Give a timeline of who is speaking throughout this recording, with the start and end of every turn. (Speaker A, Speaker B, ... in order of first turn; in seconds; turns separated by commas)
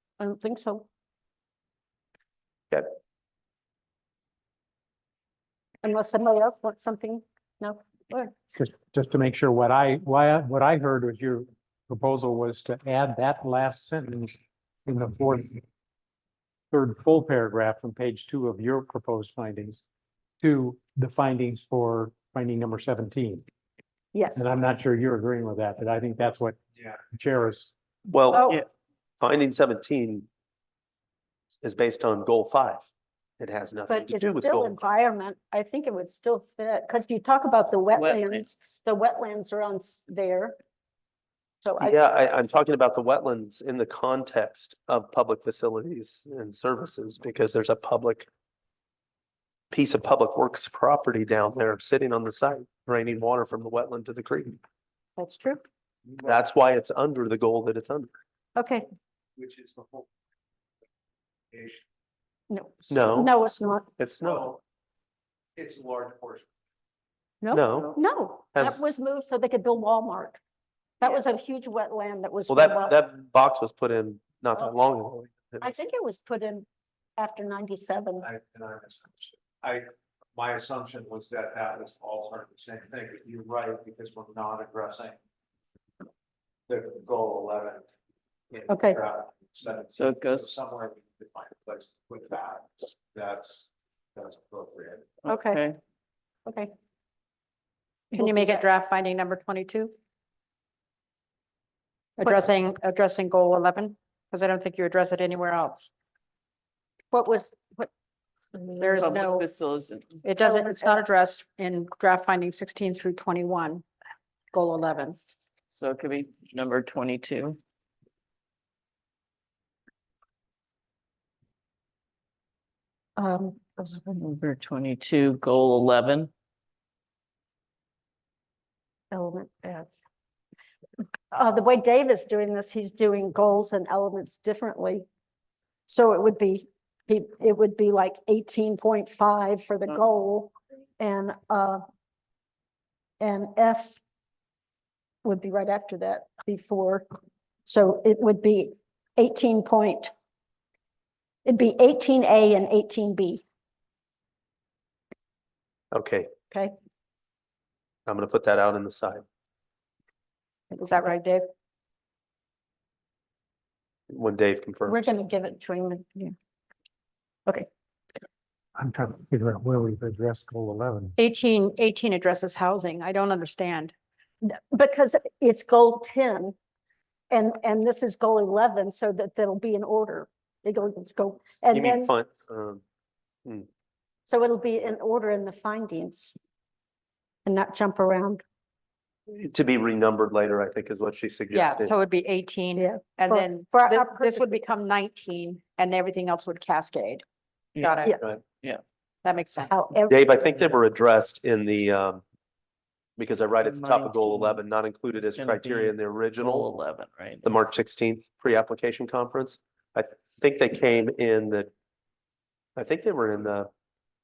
Speaker A: 0.2-0.9, Speaker A: 5.8-8.4, Speaker B: 8.6-15.6, Speaker B: 16.7-19.8, Speaker B: 20.4-23.4, Speaker A: 24.1-24.5, Speaker B: 24.4-26.6, Speaker B: 27.1-27.7, Speaker C: 28.1-28.6, Speaker A: 28.3-28.6, Speaker C: 29.2-30.3, Speaker C: 31.6-34.8, Speaker A: 33.9-40.5, Speaker D: 37.9-38.5, Speaker A: 41.6-42.0, Speaker C: 41.8-48.3, Speaker C: 49.7-54.6, Speaker A: 55.2-55.6, Speaker C: 56.2-58.1, Speaker A: 58.5-58.8, Speaker E: 59.4-60.1, Speaker E: 61.5-61.8, Speaker A: 62.5-63.9, Speaker C: 62.9-63.3, Speaker C: 64.0-64.5, Speaker E: 64.2-64.6, Speaker E: 65.6-66.5, Speaker A: 67.4-70.4, Speaker C: 67.5-68.0, Speaker C: 68.5-68.8, Speaker A: 71.0-73.0, Speaker C: 72.5-75.7, Speaker A: 75.6-76.7, Speaker A: 77.2-78.3, Speaker E: 78.2-85.2, Speaker E: 86.7-87.8, Speaker E: 88.5-95.1, Speaker A: 88.7-89.0, Speaker D: 89.9-90.6, Speaker D: 95.2-95.8, Speaker A: 95.3-95.6, Speaker A: 96.5-96.7, Speaker A: 98.1-98.6, Speaker F: 98.1-99.9, Speaker F: 102.2-105.9, Speaker A: 107.1-107.9, Speaker A: 108.5-109.1, Speaker F: 108.8-109.5, Speaker D: 109.0-110.2, Speaker F: 110.2-113.8, Speaker A: 110.4-110.9, Speaker F: 114.5-115.2, Speaker D: 115.7-117.6, Speaker A: 123.2-123.9, Speaker D: 123.9-126.3, Speaker A: 129.1-129.9, Speaker A: 131.3-135.1, Speaker A: 135.9-141.8, Speaker A: 143.2-144.0, Speaker A: 145.2-147.0, Speaker A: 147.7-150.1, Speaker A: 151.4-153.4, Speaker C: 155.9-156.3, Speaker C: 158.1-159.2, Speaker F: 160.7-161.4, Speaker C: 164.1-165.0, Speaker A: 164.8-166.3, Speaker B: 168.8-171.1, Speaker F: 171.2-173.9, Speaker A: 174.4-176.5, Speaker A: 177.3-182.1, Speaker C: 181.7-182.8, Speaker A: 184.3-186.3, Speaker A: 187.4-188.4, Speaker C: 189.3-191.9, Speaker F: 191.5-197.2, Speaker A: 192.8-194.6, Speaker D: 197.8-198.8, Speaker F: 197.8-198.1, Speaker F: 199.2-199.7, Speaker A: 199.7-200.2, Speaker C: 200.1-202.2, Speaker C: 203.2-206.7, Speaker D: 203.6-207.7, Speaker C: 207.4-211.7, Speaker C: 212.8-213.7